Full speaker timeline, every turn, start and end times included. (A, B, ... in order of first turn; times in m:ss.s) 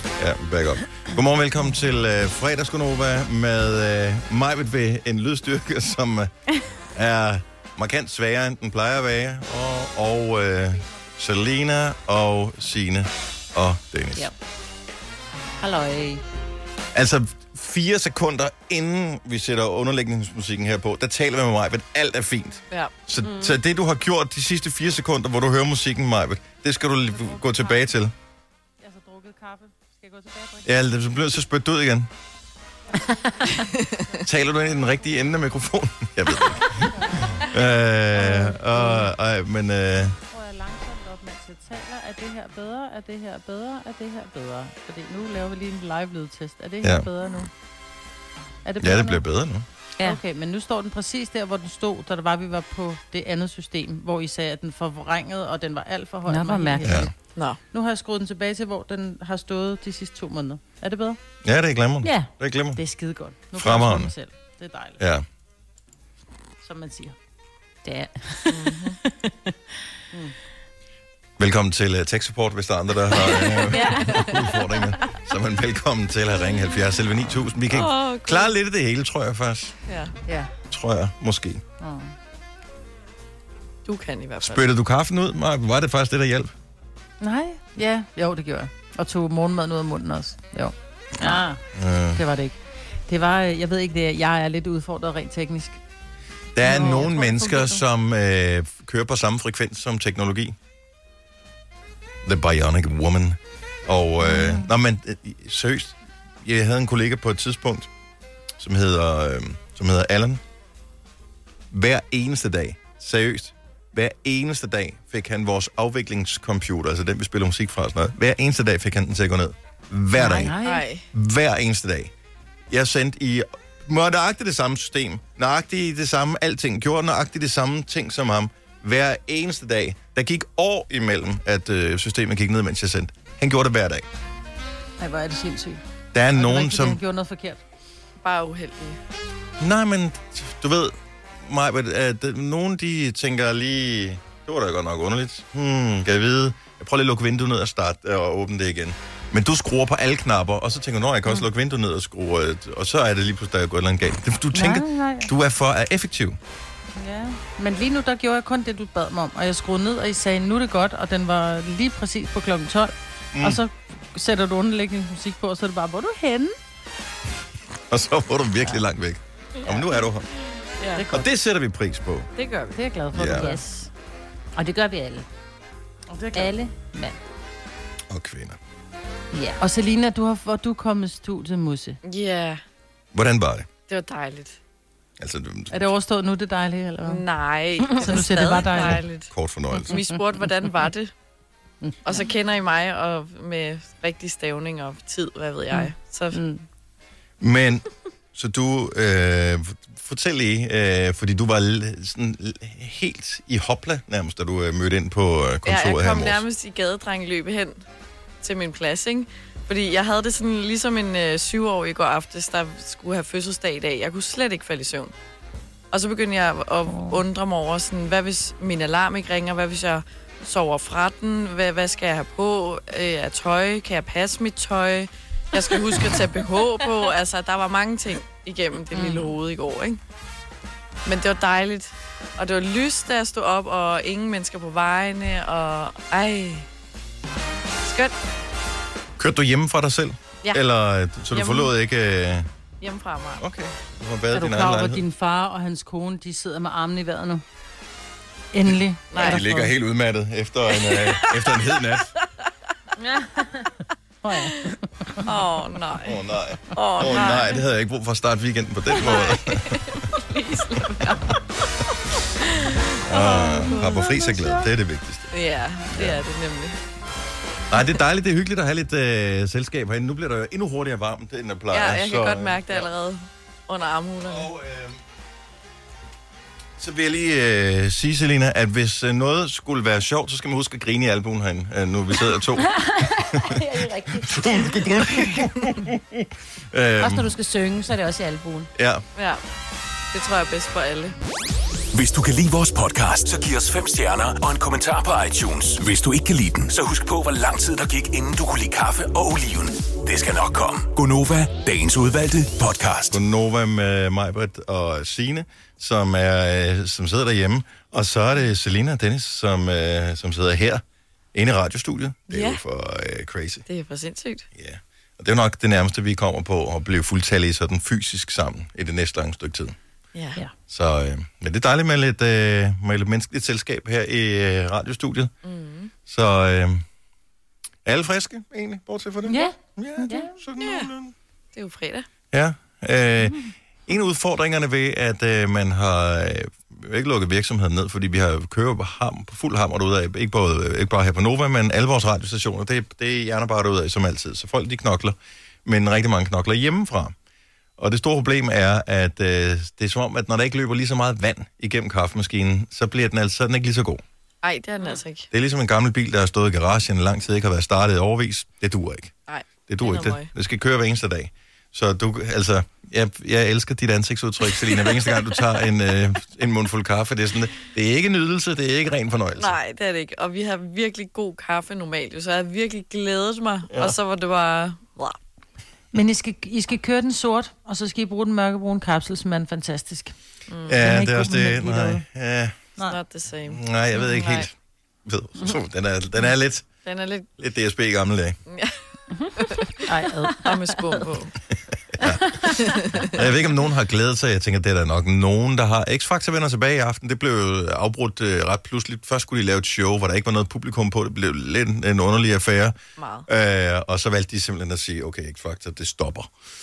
0:00.2-0:06.3 A
0:06.9-0:14.3 A
0:15.6-0:16.2 B
0:16.9-0:28.1 A
0:23.2-0:23.6 B
0:27.1-0:27.8 C
0:28.8-0:30.8 C
0:30.6-0:32.1 A
0:33.4-0:34.2 C
0:34.2-0:40.2 A
0:36.8-0:37.3 C
0:38.1-0:39.1 C
0:40.3-0:47.5 C
0:46.8-0:47.1 A
0:48.6-0:49.2 C
0:48.8-0:49.6 A
0:50.0-0:57.1 C
0:56.2-0:57.1 B
0:56.8-0:57.1 A
0:57.7-1:01.2 C
1:01.4-1:02.8 A
1:02.0-1:02.3 B
1:02.8-1:05.0 C
1:03.5-1:04.1 A
1:05.0-1:05.2 A
1:06.6-1:07.2 C
1:07.8-1:09.5 B
1:08.5-1:09.0 D
1:11.4-1:19.8 A
1:13.6-1:14.4 B
1:17.7-1:18.5 D
1:19.9-1:20.1 D
1:20.7-1:21.6 A
1:21.8-1:22.1 C
1:23.8-1:24.6 D
1:24.4-1:26.5 A
1:27.2-1:31.5 C
1:31.2-1:31.6 B
1:31.7-1:32.2 A
1:32.1-1:32.6 C
1:33.1-1:35.8 C
1:36.6-1:40.6 A
1:36.6-1:37.8 C
1:42.2-1:47.9 A
1:44.2-1:44.7 C
1:48.6-1:50.4 A
1:51.7-2:00.6 A
2:00.2-2:00.8 C
2:00.4-2:00.6 B
2:00.6-2:01.0 D
2:01.1-2:02.1 A
2:02.7-2:14.0 A
2:15.0-2:15.8 C
2:16.1-2:17.0 A
2:16.3-2:17.6 C
2:18.2-2:19.0 D
2:19.6-2:36.4 A
2:34.5-2:35.3 C
2:37.0-2:46.6 C
2:43.3-2:43.6 A
2:47.9-2:50.3 A
2:50.9-2:51.2 C
2:51.1-2:52.3 A
2:52.4-2:52.8 D
2:52.7-2:53.6 C
2:53.1-2:53.5 A
2:53.2-2:53.9 B
2:54.6-2:55.2 B
2:56.1-2:56.6 C
2:56.3-2:57.2 B
2:58.1-2:58.6 A
2:59.3-2:59.6 B
2:59.6-3:02.0 C
3:02.0-3:02.6 D
3:03.1-3:03.7 A
3:03.9-3:04.6 D
3:05.2-3:05.9 A
3:05.7-3:07.2 C
3:07.0-3:09.3 D
3:08.0-3:09.0 C
3:09.3-3:10.0 A
3:09.8-3:11.1 D
3:12.0-3:16.4 D
3:16.3-3:16.6 B
3:17.4-3:26.4 A
3:25.6-3:27.8 D
3:28.4-3:35.1 D
3:35.9-3:50.0 D
3:49.0-3:49.2 B
3:51.0-3:56.7 D
3:57.8-3:58.1 D
3:59.2-4:02.5 A
4:01.3-4:01.7 D
4:02.8-4:03.4 D
4:03.4-4:05.0 A
4:04.3-4:07.4 C
4:08.5-4:09.7 C
4:09.1-4:09.4 D
4:09.1-4:12.1 A
4:10.7-4:11.6 D
4:14.2-4:15.2 C
4:15.2-4:16.2 D
4:16.0-4:19.8 A
4:16.7-4:17.6 D
4:18.9-4:21.4 D
4:22.4-4:22.8 D
4:23.1-4:25.3 A
4:23.1-4:24.6 C
4:25.3-4:26.8 D
4:25.9-4:26.2 A
4:27.7-4:32.9 A
4:27.7-4:28.0 D
4:31.7-4:34.5 D
4:34.3-4:35.0 A
4:36.8-4:43.6 A
4:42.5-4:45.4 B
4:44.1-4:47.3 A
4:47.0-4:48.7 B
4:48.8-4:49.0 A
4:49.1-4:49.4 D
4:50.1-4:51.1 D
4:51.9-5:03.2 E
5:03.1-5:10.8 A
5:11.3-5:13.6 A
5:12.3-5:12.6 D
5:13.7-5:14.5 D
5:14.5-5:19.8 A
5:20.1-5:20.4 D
5:20.7-5:25.3 A
5:25.4-5:25.9 D
5:26.0-5:26.8 A
5:27.8-5:31.1 A
5:29.2-5:30.3 B
5:30.6-5:30.9 D
5:31.5-5:32.1 D
5:32.3-5:47.1 A
5:47.8-5:54.0 A
5:54.4-5:55.3 D
5:55.3-5:59.1 A
5:59.3-6:00.3 D
5:59.7-6:09.6 A
6:04.6-6:05.2 D
6:09.4-6:15.2 D
6:15.9-6:20.1 C
6:20.5-6:20.8 D
6:20.7-6:22.6 A
6:20.8-6:22.0 C
6:22.8-6:24.5 D
6:23.5-6:26.7 A
6:26.8-6:27.3 D
6:27.4-6:28.4 A
6:28.5-6:28.8 D
6:29.9-6:30.4 C
6:30.3-6:31.3 D
6:32.0-6:32.2 A
6:32.6-6:33.3 D
6:33.1-6:42.8 A
6:43.0-6:43.3 D
6:43.3-6:46.3 A